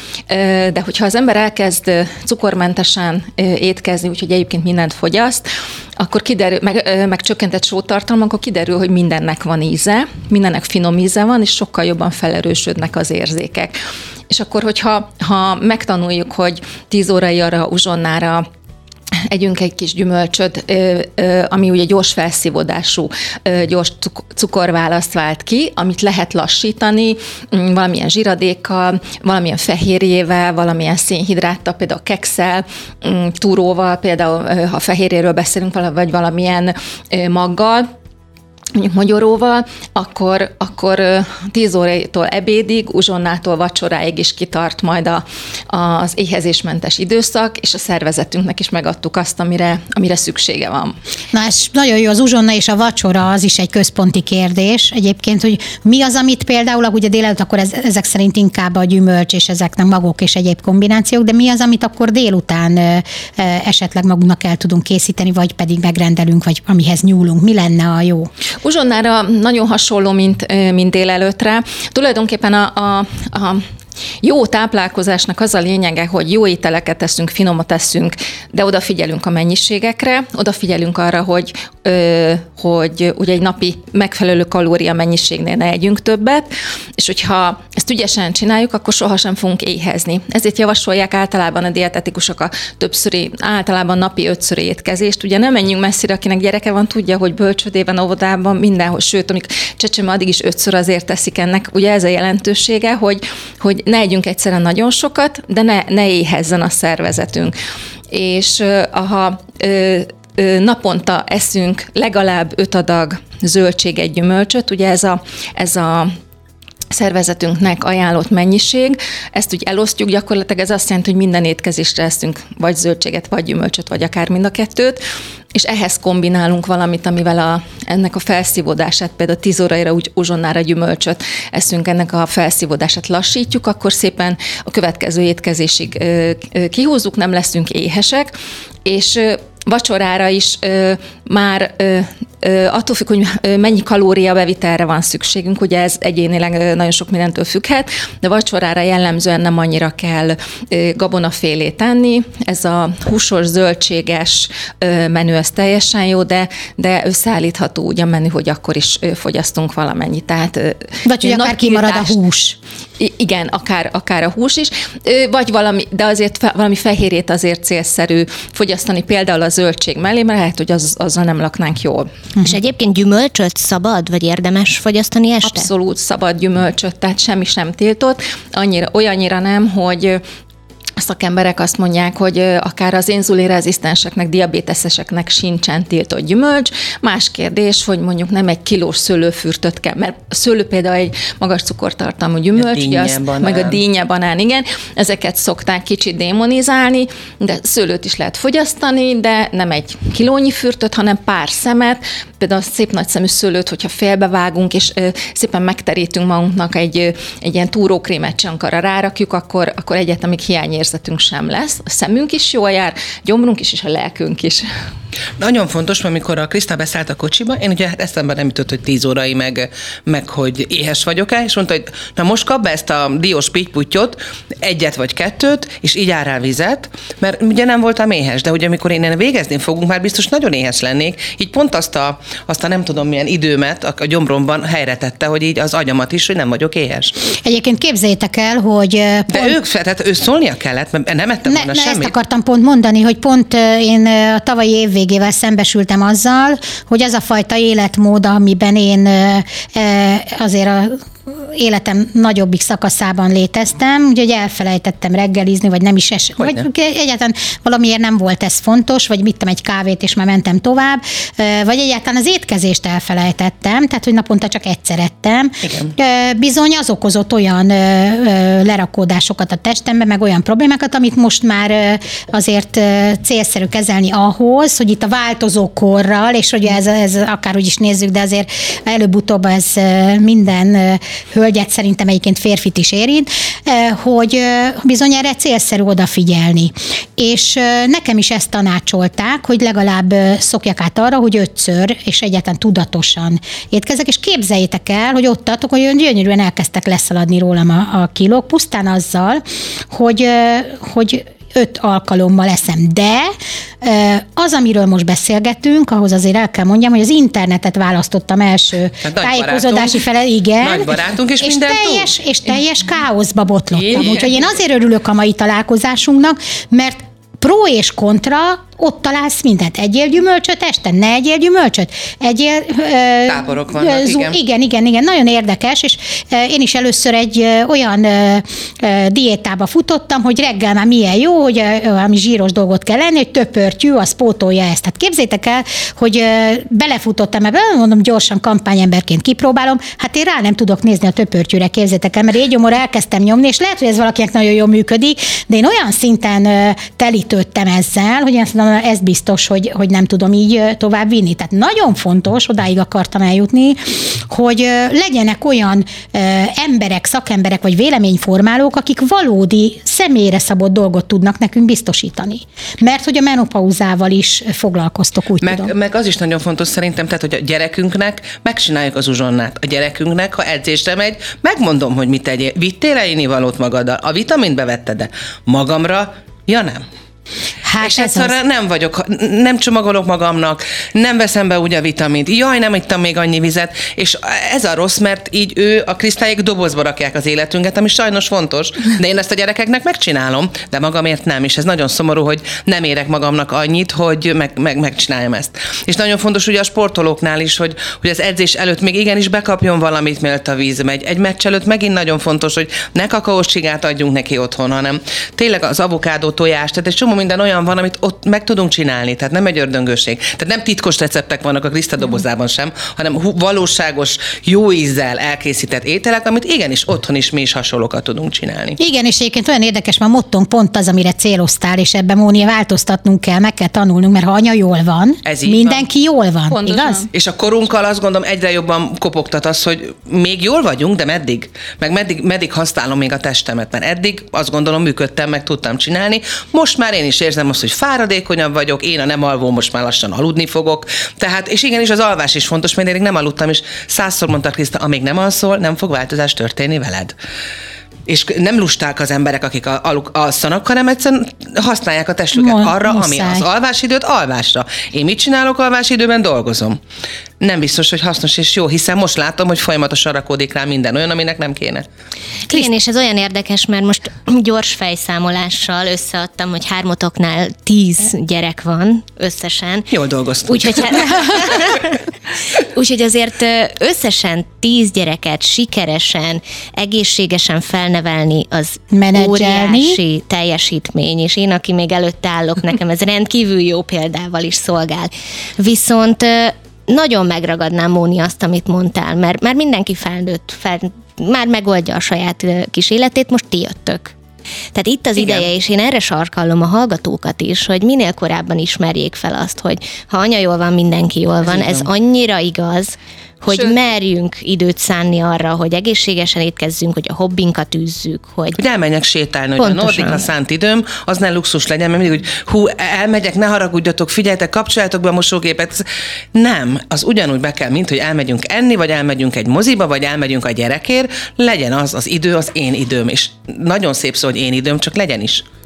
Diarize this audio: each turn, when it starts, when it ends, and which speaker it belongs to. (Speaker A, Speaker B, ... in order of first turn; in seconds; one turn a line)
Speaker A: 0.3-13.8
Speaker A: 14.3-18.5
Speaker A: 19.3-37.9
Speaker A: 38.7-50.9
Speaker B: 51.3-68.3
Speaker A: 68.6-73.6
Speaker A: 74.2-107.5
Speaker A: 108.1-116.1
Speaker A: 116.9-125.0
Speaker A: 125.5-138.3
Speaker A: 138.8-162.2
Speaker B: 161.0-162.6
Speaker A: 163.0-172.1
Speaker C: 172.4-175.7
Speaker A: 175.4-180.2
Speaker A: 181.0-214.7
Speaker D: 192.6-193.8
Speaker D: 215.4-237.2
Speaker B: 237.4-239.6
Speaker D: 239.3-242.1
Speaker B: 241.5-365.7
Speaker D: 256.4-256.6
Speaker D: 265.6-265.9
Speaker D: 309.0-310.0
Speaker D: 310.6-312.1
Speaker D: 313.8-314.3
Speaker D: 323.3-324.4
Speaker D: 365.4-376.8
Speaker B: 377.6-378.4
Speaker D: 377.8-418.8
Speaker B: 418.8-427.0
Speaker D: 425.2-425.8
Speaker A: 426.5-427.1
Speaker D: 427.1-447.1
Speaker D: 448.1-456.8
Speaker B: 452.3-453.4
Speaker D: 457.4-461.8
Speaker C: 462.5-469.9
Speaker D: 469.9-471.7
Speaker C: 470.5-472.0
Speaker C: 472.6-494.1
Speaker B: 478.9-480.0
Speaker C: 494.7-508.6
Speaker D: 495.1-495.5
Speaker D: 501.4-501.9
Speaker D: 508.5-525.4
Speaker C: 509.6-510.3